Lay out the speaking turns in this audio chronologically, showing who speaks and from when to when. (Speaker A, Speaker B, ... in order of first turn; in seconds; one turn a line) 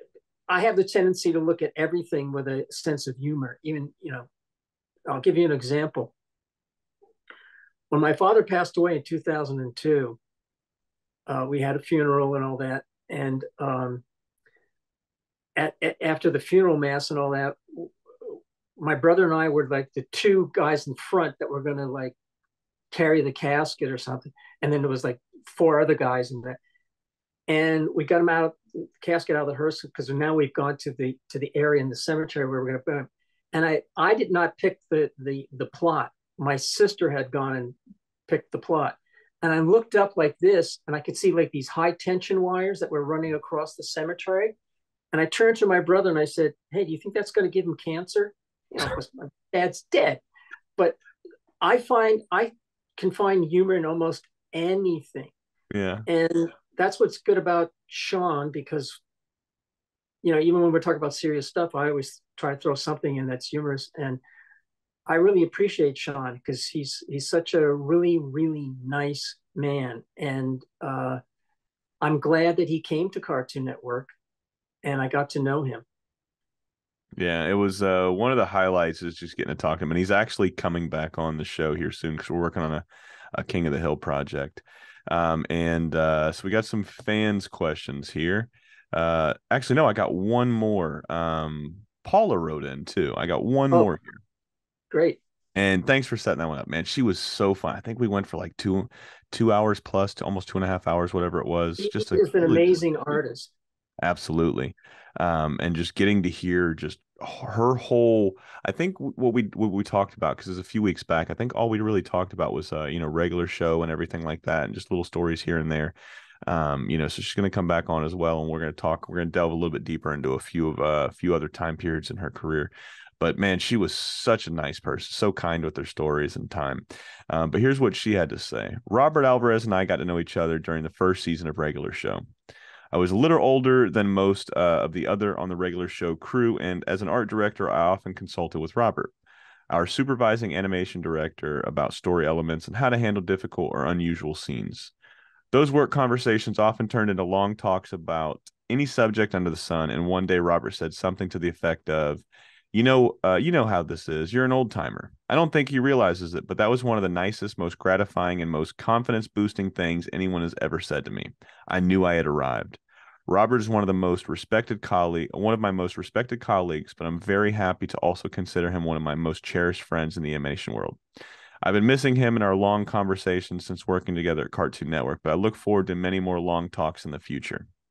Speaker A: 0.5-4.3
Speaker A: 5.1-6.1
Speaker A: 7.9-10.2
Speaker A: 11.3-14.0
Speaker A: 15.6-22.1
Speaker A: 22.9-26.6
Speaker A: 27.5-37.8
Speaker A: 38.3-44.5
Speaker A: 45.1-50.2
Speaker A: 51.6-55.3
Speaker B: 55.7-56.1
Speaker A: 56.1-59.0
Speaker A: 60.2-64.2
Speaker A: 65.1-71.2
Speaker A: 72.0-74.1
Speaker A: 74.8-75.8
Speaker B: 77.2-94.2
Speaker A: 94.9-95.2
Speaker B: 95.5-102.8
Speaker A: 101.8-103.5
Speaker B: 104.0-116.0
Speaker B: 116.5-132.2
Speaker B: 132.9-139.1
Speaker B: 139.7-144.9
Speaker B: 145.5-171.0
Speaker B: 171.6-177.7